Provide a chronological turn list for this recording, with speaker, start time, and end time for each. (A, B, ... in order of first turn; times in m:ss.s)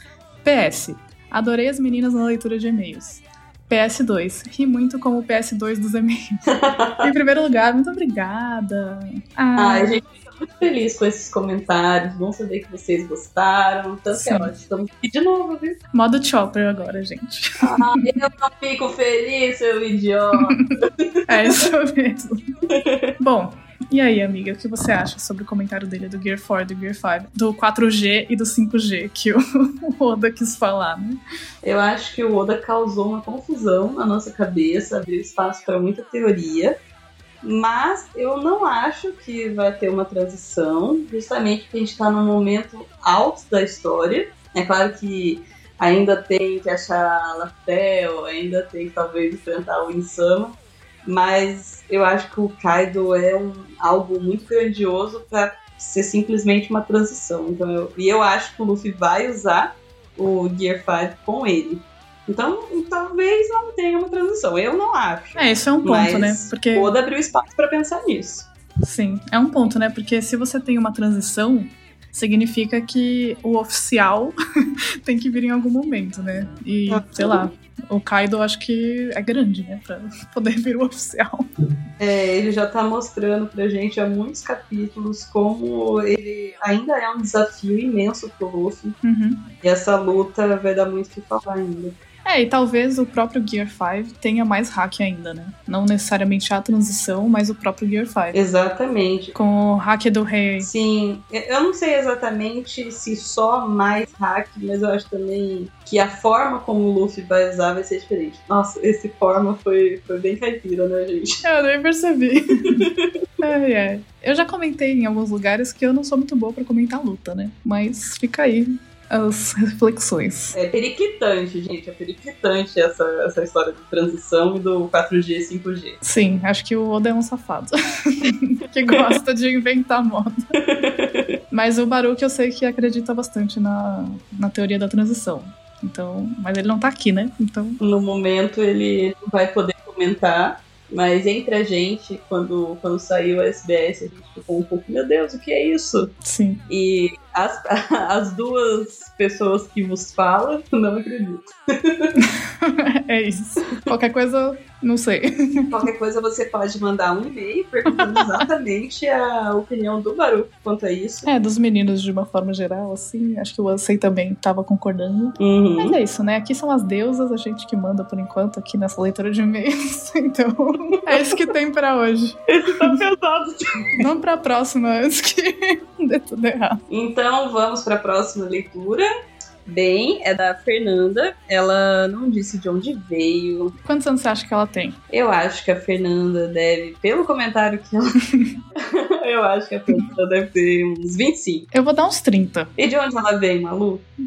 0:00.4-0:06.4 A
0:06.5-0:07.1 B
0:07.0-0:10.0 A
0:09.6-0:15.8 B
0:14.1-0:14.5 A
0:15.9-0:18.1 A
0:17.6-0:21.6 B
0:21.3-0:22.5 A
0:22.7-0:23.1 B
0:23.2-0:31.2 A
0:31.6-0:36.8 B
0:37.4-1:08.5 B
1:05.4-1:06.9 A
1:08.8-1:14.4 A
1:15.0-1:21.5 A
1:16.9-1:17.5 B
1:22.0-1:29.0 B
1:29.0-1:29.5 A
1:29.6-1:32.0 B
1:32.2-1:38.4 A
1:38.3-1:39.4 B
1:39.4-1:40.7 A
1:40.6-1:51.4 B
1:51.4-1:52.9 A
1:53.4-2:00.6 A
2:00.5-2:06.0 B
2:06.0-2:10.4 A
2:10.6-2:11.4 B
2:11.5-2:17.8 A
2:17.8-2:26.1 B
2:26.2-2:26.6 A
2:26.7-2:32.2 B
2:32.2-2:35.8 A
2:35.7-2:41.3 B
2:37.9-2:38.2 A
2:41.3-2:53.0 A
2:45.4-2:46.0 B
2:52.5-2:54.0 B
2:54.0-2:56.8 A
2:56.9-2:59.1 B
2:59.7-3:03.8 B
3:03.8-3:05.0 A
3:05.1-3:08.2 B
3:08.9-3:11.7 B
3:11.7-3:12.7 A
3:12.8-3:14.1 B